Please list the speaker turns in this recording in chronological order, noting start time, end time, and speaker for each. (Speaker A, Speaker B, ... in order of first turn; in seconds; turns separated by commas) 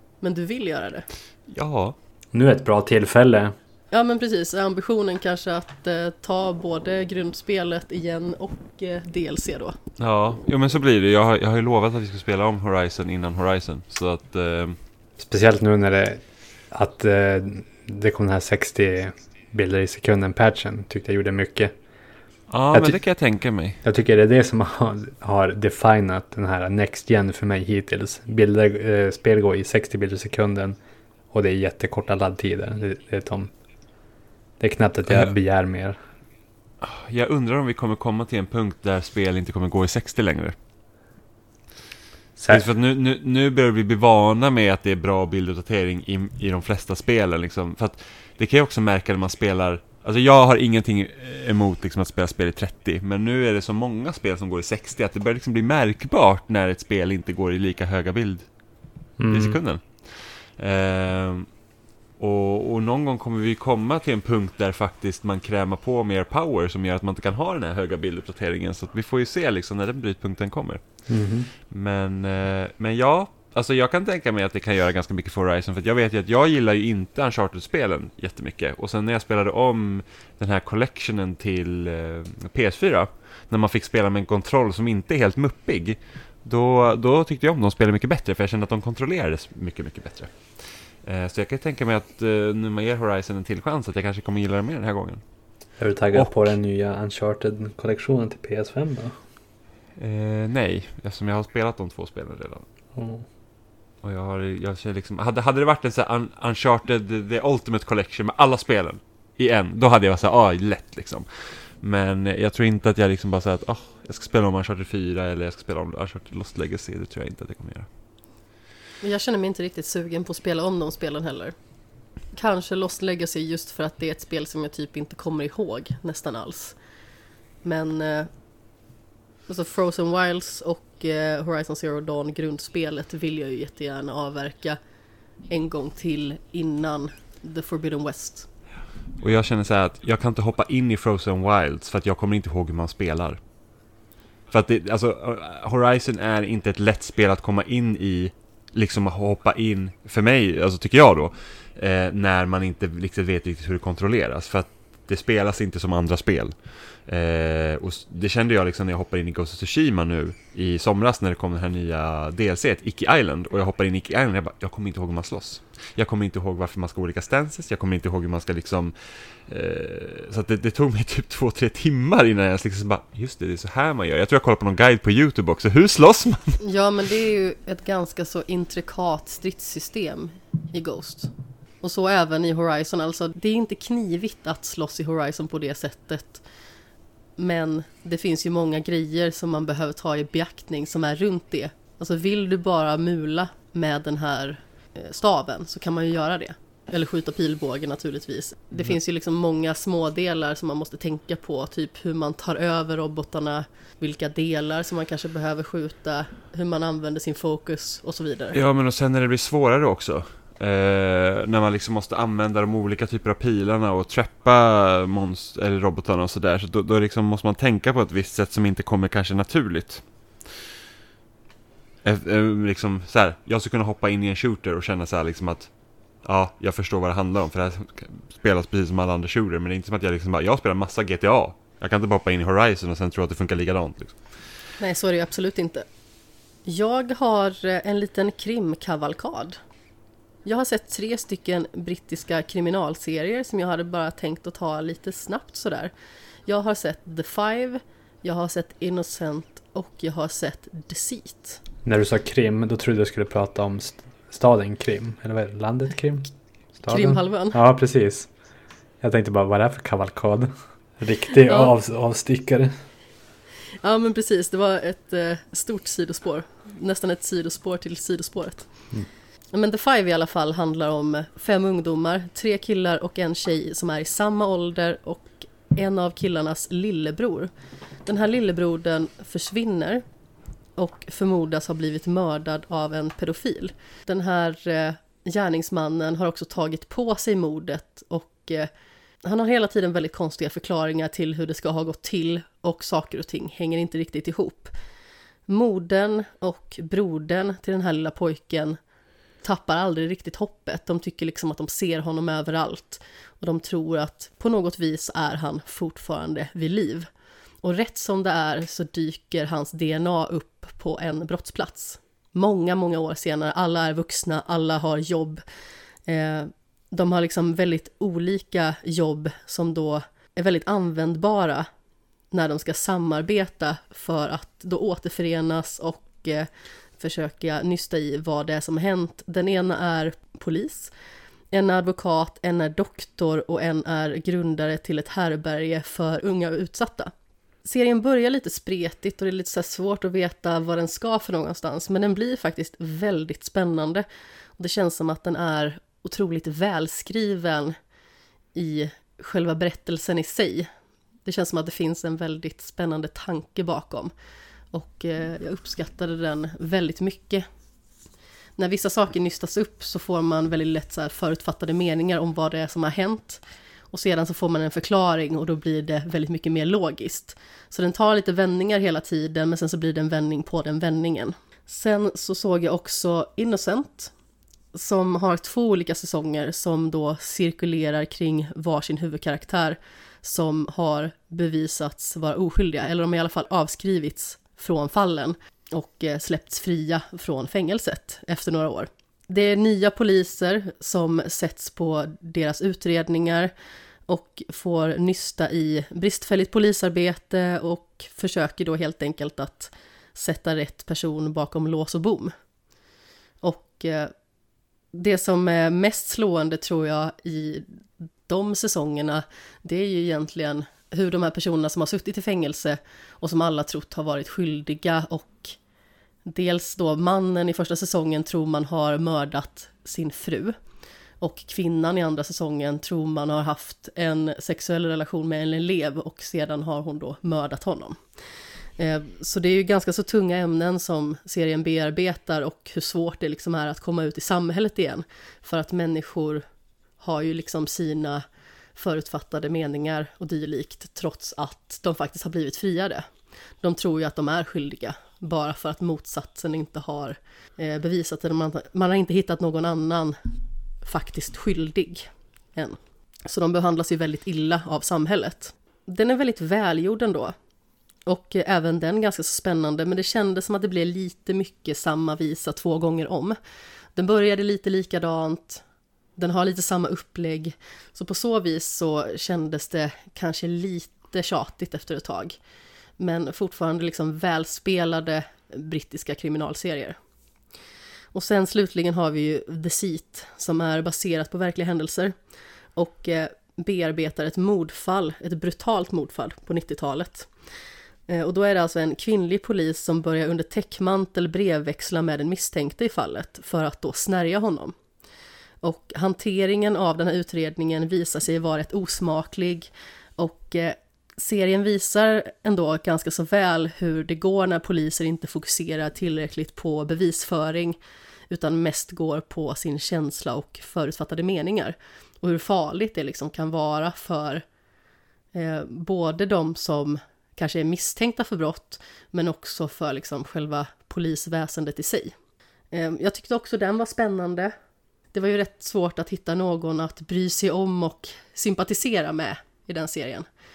Speaker A: 0.2-1.1, Speaker B: 1.5-1.9, Speaker C: 2.3-3.5, Speaker A: 3.9-9.8, Speaker B: 10.0-14.8, Speaker C: 15.2-21.7, Speaker B: 22.5-23.8, Speaker C: 22.7-23.0, Speaker C: 23.8-30.8, Speaker C: 31.3-33.5, Speaker C: 34.6-36.0, Speaker B: 36.8-40.5, Speaker C: 42.4-42.7, Speaker B: 42.5-58.5, Speaker C: 59.2-59.6, Speaker B: 59.3-61.5, Speaker B: 62.2-95.2, Speaker C: 71.1-71.5, Speaker C: 95.8-99.2, Speaker B: 96.1-96.5, Speaker B: 100.0-102.7, Speaker C: 102.9-103.2, Speaker B: 104.0-117.9, Speaker A: 119.0-121.5, Speaker A: 122.3-126.8, Speaker A: 127.6-128.3, Speaker A: 129.5-134.8, Speaker A: 135.5-138.4, Speaker B: 139.2-143.4, Speaker B: 144.5-176.6, Speaker A: 176.6-186.4, Speaker A: 187.4-208.6, Speaker B: 208.5-220.0, Speaker B: 222.0-225.7, Speaker B: 226.2-234.3, Speaker A: 234.8-235.8, Speaker A: 236.6-239.6, Speaker A: 240.4-245.9, Speaker A: 246.4-251.6, Speaker C: 251.8-258.3, Speaker A: 256.9-257.6, Speaker C: 259.0-262.7, Speaker A: 263.8-268.9, Speaker A: 269.5-277.5, Speaker A: 278.0-280.0, Speaker A: 280.8-288.7, Speaker A: 289.2-294.7, Speaker A: 295.5-298.8, Speaker A: 299.4-307.1, Speaker A: 307.6-315.4, Speaker A: 316.1-321.7, Speaker A: 322.3-330.9, Speaker A: 331.5-337.1, Speaker A: 337.6-344.0, Speaker A: 344.6-347.8, Speaker A: 348.5-350.7, Speaker A: 351.2-354.1, Speaker A: 354.7-357.4, Speaker A: 358.6-374.1, Speaker A: 374.7-393.5, Speaker A: 394.1-402.3, Speaker A: 403.4-404.1, Speaker A: 404.9-415.6, Speaker A: 416.2-420.6, Speaker A: 421.2-428.0, Speaker A: 428.8-436.4, Speaker A: 437.0-438.2, Speaker A: 438.8-443.1, Speaker A: 443.6-450.3, Speaker A: 450.8-457.3, Speaker A: 458.1-463.4, Speaker A: 463.9-465.6, Speaker A: 466.2-472.4, Speaker A: 473.0-477.0, Speaker A: 478.1-482.1, Speaker A: 482.7-487.3, Speaker A: 488.1-494.7, Speaker A: 495.6-514.4, Speaker A: 515.3-522.1, Speaker A: 522.7-524.5, Speaker A: 525.1-530.2